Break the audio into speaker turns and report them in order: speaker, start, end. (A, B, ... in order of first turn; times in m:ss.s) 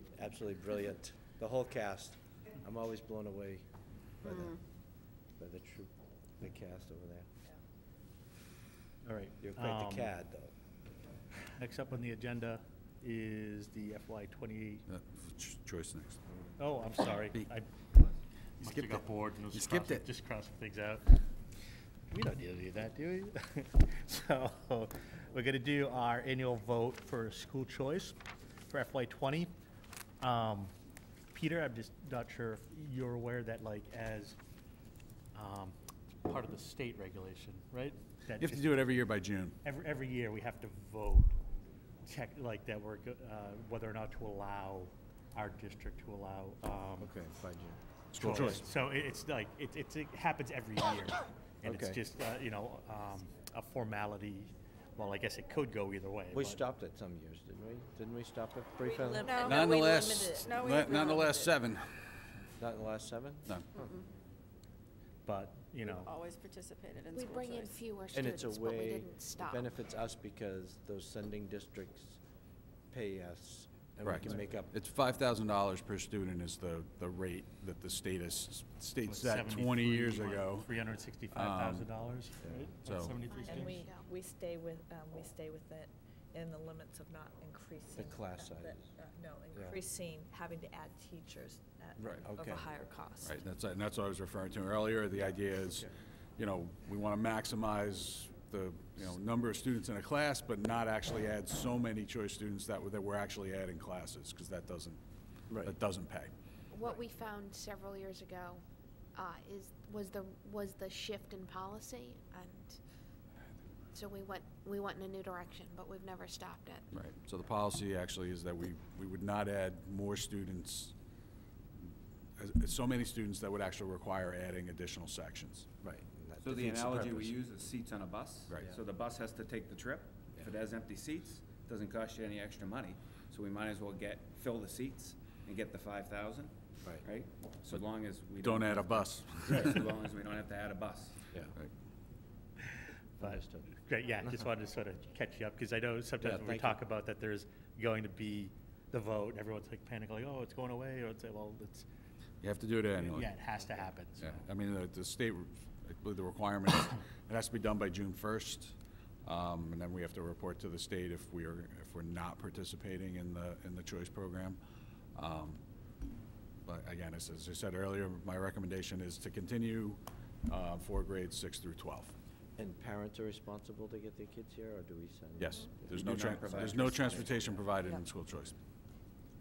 0:00.1-0:03.6 A
0:04.2-0:04.6 A
0:05.4-0:07.3 A
0:09.0-0:10.1 B
0:09.4-0:10.5 A
0:11.6-0:14.8 B
0:14.9-0:16.2 C
0:16.6-0:17.7 B
0:18.6-0:21.0 B
0:18.6-0:20.1 C
0:22.1-0:28.2 B
0:28.7-0:29.5 B
0:30.2-0:30.7 B
0:31.3-0:34.4 B
0:35.3-0:38.8 B
0:38.4-0:39.6 C
0:39.6-0:41.4 B
0:42.0-0:47.1 B
0:47.0-0:48.6 A
0:48.1-0:48.6 C
0:48.2-0:56.6 B
0:51.6-0:52.0 A
0:56.3-0:59.3 A
0:58.8-1:00.5 D
0:59.2-0:59.6 E
0:59.4-1:01.9 C
1:00.4-1:01.6 E
1:02.6-1:03.5 A
1:03.7-1:04.1 E
1:05.2-1:06.1 B
1:05.8-1:07.8 E
1:07.1-1:09.6 F
1:08.1-1:12.2 A
1:12.9-1:14.7 A
1:14.0-1:20.7 C
1:19.0-1:23.9 B
1:21.3-1:21.9 C
1:22.4-1:22.7 A
1:22.8-1:23.2 C
1:23.0-1:24.1 F
1:23.4-1:33.4 D
1:27.9-1:28.8 A
1:32.0-1:32.7 A
1:33.2-1:45.0 C
1:45.5-1:45.7 A
1:45.6-1:46.3 C
1:46.7-1:48.6 F
1:49.1-1:52.8 F
1:53.9-1:56.8 F
1:56.9-2:00.9 C
2:02.4-2:05.7 C
2:05.8-2:07.4 A
2:06.4-2:21.2 G
2:18.4-2:19.8 C
2:22.8-2:31.9 B
2:23.2-2:23.7 A
2:26.2-2:26.8 A
2:32.4-2:33.3 C
2:33.0-2:34.4 B
2:34.2-2:44.6 C
2:45.1-2:45.6 C
2:46.6-2:52.1 C
2:52.6-2:56.0 A
2:55.4-2:58.6 C
2:55.9-2:57.4 G
2:56.5-2:57.6 A